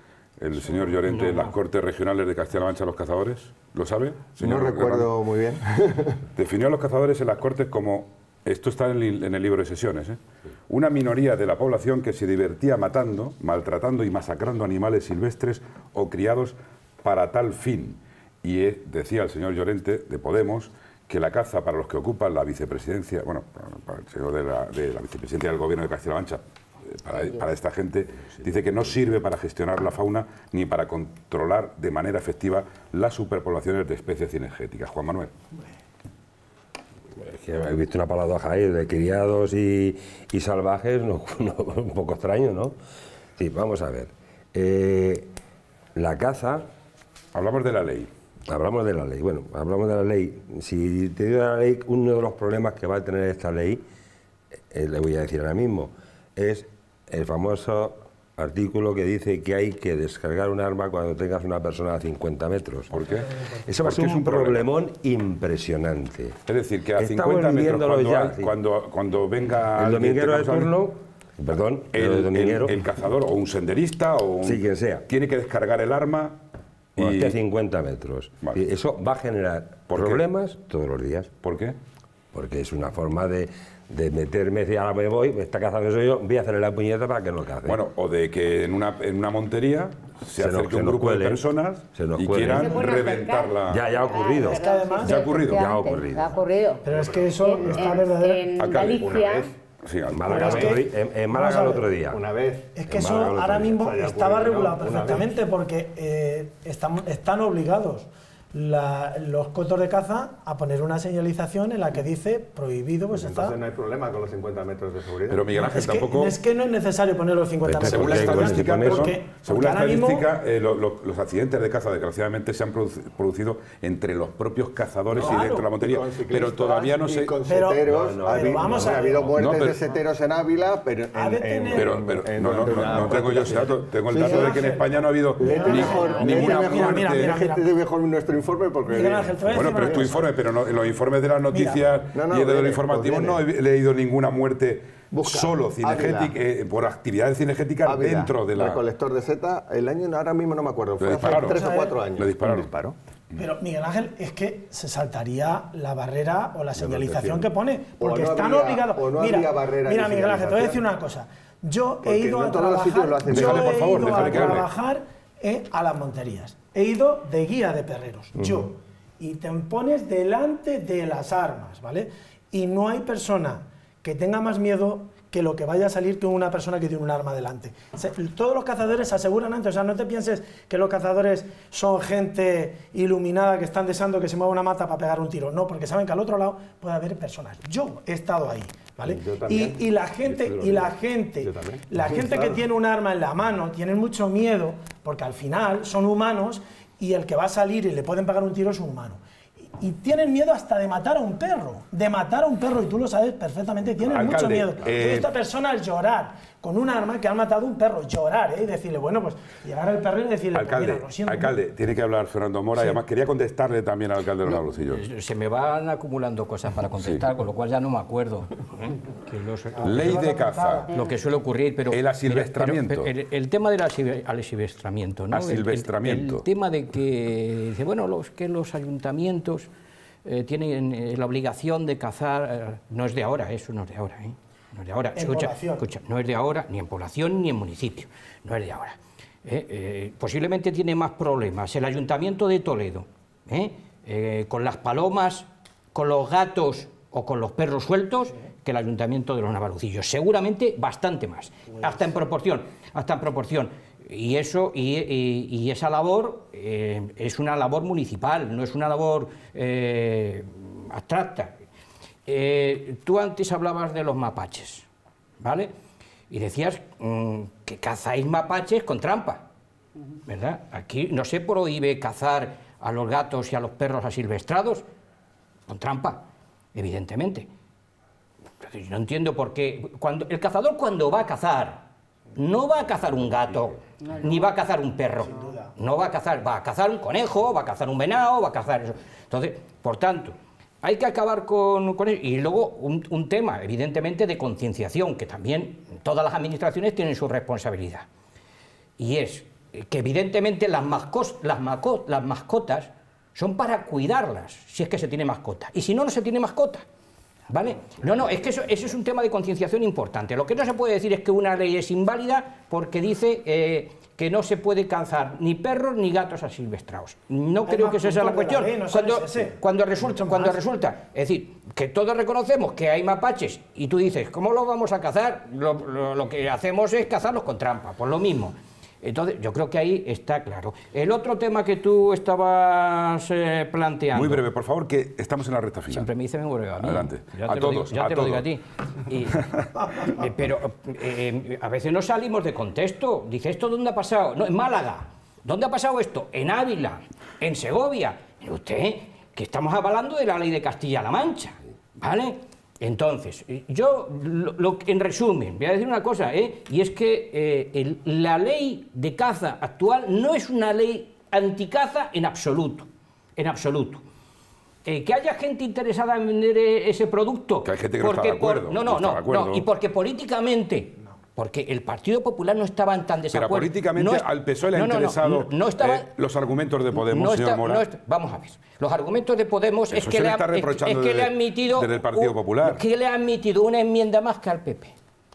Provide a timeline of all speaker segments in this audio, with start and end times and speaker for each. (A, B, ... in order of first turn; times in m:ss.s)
0:00.4-0:05.1 A
0:01.1-0:01.5 B
0:04.4-0:06.2 C
0:06.4-0:35.3 A
0:27.1-0:27.4 D
0:37.2-0:42.8 E
0:43.4-0:45.3 E
0:46.0-0:46.7 E
0:47.3-0:48.1 A
0:48.5-0:53.8 E
0:54.7-1:03.0 E
1:02.9-1:04.7 A
1:03.6-1:06.4 E
1:06.5-1:10.8 A
1:07.0-1:08.6 E
1:09.8-1:12.8 E
1:11.9-1:16.4 A
1:14.4-1:15.1 E
1:17.0-1:17.4 A
1:17.0-1:21.3 E
1:19.9-1:20.3 A
1:21.4-1:21.8 A
1:22.3-1:27.8 E
1:27.6-1:33.9 A
1:30.4-1:33.0 E
1:32.5-1:39.5 D
1:33.7-1:34.6 E
1:34.5-1:35.5 F
1:35.0-1:35.7 A
1:35.5-1:36.4 E
1:36.8-1:38.5 F
1:36.9-1:38.0 C
1:38.6-1:40.8 A
1:38.8-1:39.5 C
1:40.1-1:42.2 E
1:40.3-1:41.9 F
1:40.3-1:40.6 C
1:41.7-1:42.7 C
1:42.8-1:53.6 F
1:42.9-1:43.8 E
1:43.7-1:45.3 C
1:53.1-1:55.5 C
1:55.3-1:56.4 A
1:55.5-2:00.3 F
1:57.6-1:59.1 E
1:57.8-2:07.4 A
2:05.1-2:05.7 F
2:05.1-2:14.8 C
2:07.5-2:09.4 F
2:07.8-2:09.4 E
2:09.4-2:09.8 A
2:11.1-2:12.1 F
2:11.7-2:17.4 A
2:12.6-2:13.2 F
2:14.2-2:17.7 F
2:15.4-2:20.2 C
2:15.7-2:16.2 D
2:18.9-2:20.3 F
2:19.5-2:28.8 A
2:21.5-2:21.8 F
2:22.1-2:23.4 C
2:25.1-2:26.3 C
2:27.9-2:33.0 C
2:31.0-2:31.6 A
2:31.2-2:32.0 F
2:32.2-2:32.7 A
2:33.4-3:19.2 F
2:36.8-2:37.4 A
2:38.0-2:40.8 C
2:42.0-2:44.6 C
2:43.3-2:44.7 A
2:48.4-2:48.6 C
3:09.0-3:12.6 C
3:19.8-3:31.6 F
3:24.0-3:25.3 A
3:30.5-3:35.0 A
3:34.5-3:40.3 B
3:37.0-3:37.3 A
3:39.8-3:41.1 F
3:39.8-3:40.9 A
3:40.9-3:49.7 B
3:41.9-3:43.1 A
3:45.3-3:46.4 A
3:50.2-4:21.6 B
3:55.2-3:55.8 F
4:22.3-4:24.9 B
4:25.4-4:25.7 B
4:26.3-4:29.4 B
4:30.3-4:34.9 B
4:35.7-4:37.5 B
4:38.6-4:41.8 B
4:42.4-4:58.1 B
4:45.2-4:45.7 F
4:59.0-5:06.8 B
5:07.5-5:34.4 B
5:17.6-5:20.6 F
5:34.1-5:36.1 A
5:35.9-5:39.5 B
5:36.8-5:38.5 A
5:39.3-5:39.7 A
5:40.0-6:04.0 B
6:04.8-6:16.1 B
6:07.6-6:09.6 A
6:13.3-6:17.8 A
6:16.9-6:25.0 B
6:19.9-6:22.8 A